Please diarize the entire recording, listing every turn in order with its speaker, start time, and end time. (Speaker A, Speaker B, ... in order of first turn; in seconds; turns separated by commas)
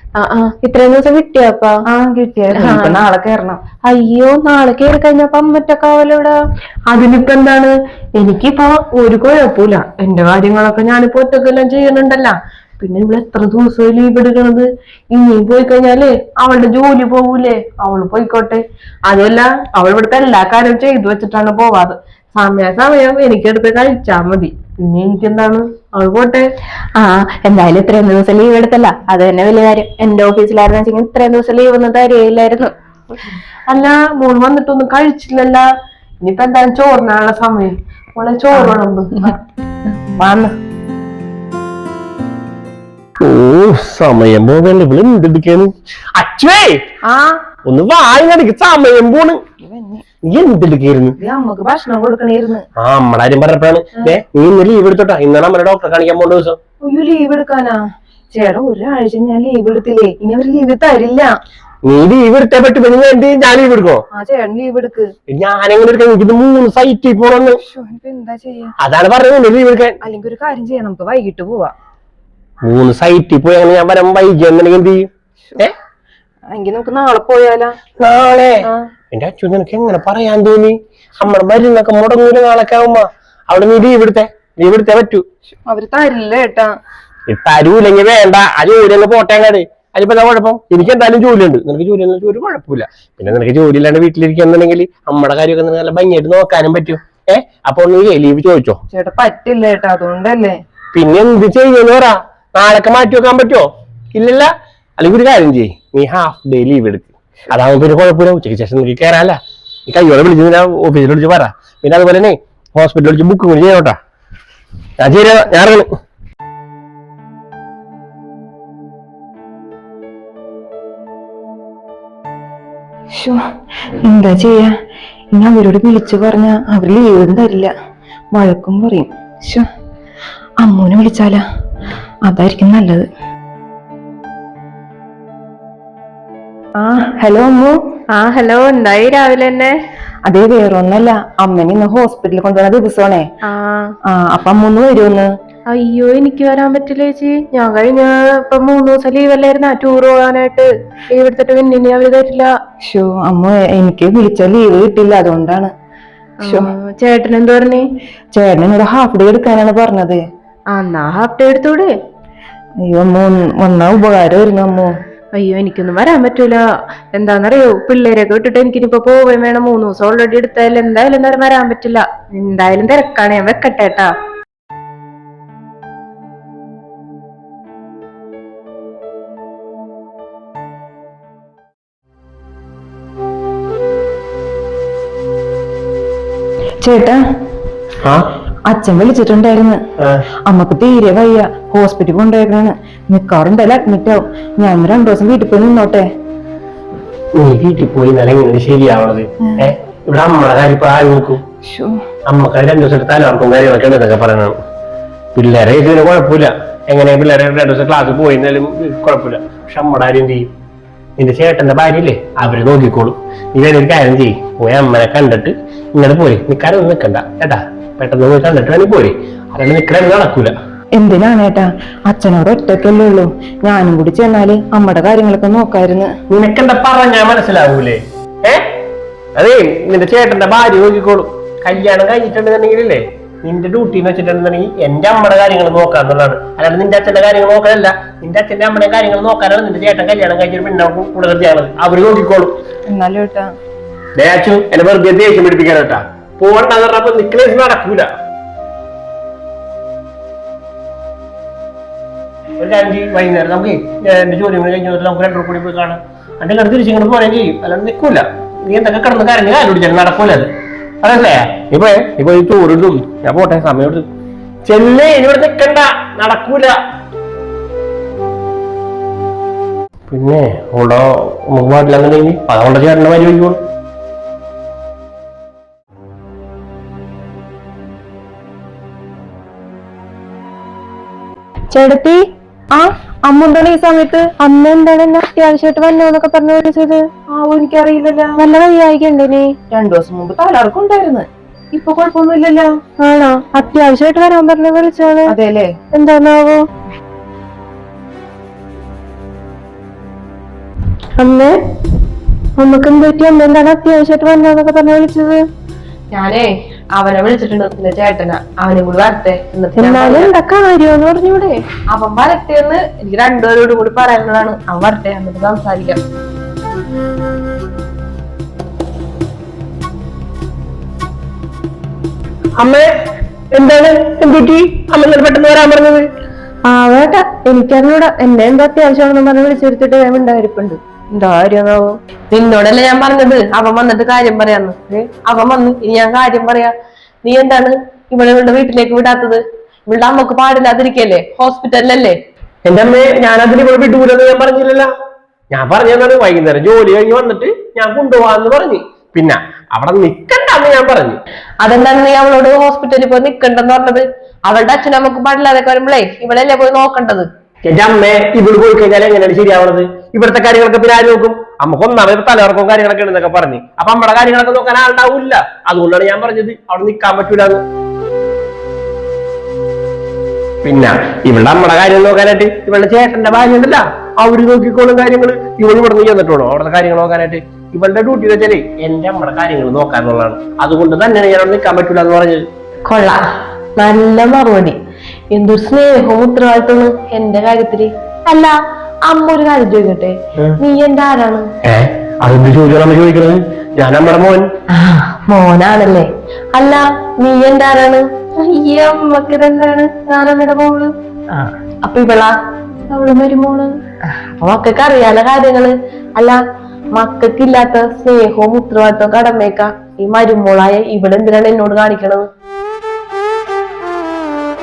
Speaker A: 0.2-1.8, Speaker B: 1.9-3.6, Speaker A: 2.5-3.0, Speaker A: 3.8-6.4, Speaker C: 6.9-26.5, Speaker A: 27.0-32.7, Speaker C: 33.7-35.7, Speaker C: 36.2-39.4, Speaker C: 40.2-40.5, Speaker D: 43.2-46.8, Speaker D: 47.6-49.4, Speaker B: 49.6-50.0, Speaker D: 50.2-51.2, Speaker B: 51.2-52.6, Speaker D: 52.8-56.6, Speaker B: 56.8-61.3, Speaker D: 61.8-64.0, Speaker B: 64.1-65.1, Speaker D: 65.3-67.6, Speaker B: 67.6-68.7, Speaker D: 68.8-70.0, Speaker B: 70.0-71.7, Speaker D: 72.7-75.7, Speaker B: 76.5-77.8, Speaker D: 78.0-78.5, Speaker D: 79.1-85.2, Speaker B: 85.7-86.7, Speaker D: 87.3-98.8, Speaker B: 98.9-100.5, Speaker D: 100.9-114.0, Speaker D: 115.0-115.8, Speaker B: 123.1-124.7, Speaker B: 125.3-127.7, Speaker B: 128.3-129.7, Speaker B: 130.6-131.4, Speaker B: 132.2-133.1, Speaker B: 136.8-137.7, Speaker A: 138.1-139.7, Speaker B: 140.2-143.3, Speaker A: 143.4-143.9, Speaker B: 144.1-145.3, Speaker A: 145.7-152.5, Speaker B: 152.8-155.7, Speaker A: 156.4-157.9, Speaker B: 158.3-160.2, Speaker A: 160.7-161.9, Speaker B: 162.8-164.9, Speaker A: 165.3-166.6, Speaker A: 167.1-174.1, Speaker B: 186.8-187.2, Speaker B: 188.7-189.8, Speaker B: 190.5-196.1, Speaker D: 197.4-201.4, Speaker B: 201.6-202.0, Speaker D: 202.3-204.5, Speaker D: 205.3-210.5, Speaker D: 211.2-220.5, Speaker B: 221.0-226.1, Speaker D: 226.3-228.6, Speaker D: 229.3-242.5, Speaker B: 242.9-243.5, Speaker D: 244.2-248.1, Speaker D: 252.6-260.5, Speaker D: 261.0-264.1, Speaker D: 264.7-266.7, Speaker D: 270.1-273.6, Speaker A: 281.7-282.2, Speaker A: 282.7-287.1, Speaker B: 287.3-288.4, Speaker A: 288.4-289.5, Speaker B: 289.7-292.7, Speaker A: 293.0-295.3, Speaker B: 295.3-295.8, Speaker A: 295.9-296.6, Speaker A: 301.2-301.6, Speaker A: 302.6-305.4, Speaker C: 306.1-310.3, Speaker A: 309.8-311.6, Speaker C: 311.9-316.0, Speaker D: 322.6-322.9, Speaker D: 323.5-326.1, Speaker A: 326.7-331.9, Speaker C: 332.3-336.7, Speaker C: 337.2-342.1, Speaker D: 342.7-344.9, Speaker D: 345.5-351.2, Speaker C: 351.6-357.3, Speaker D: 357.7-367.6, Speaker D: 370.6-382.4, Speaker C: 382.9-383.2, Speaker C: 383.8-384.8, Speaker C: 385.3-391.5, Speaker D: 391.6-394.4, Speaker C: 394.7-402.3, Speaker A: 402.9-403.7, Speaker C: 404.1-406.4, Speaker C: 406.9-412.2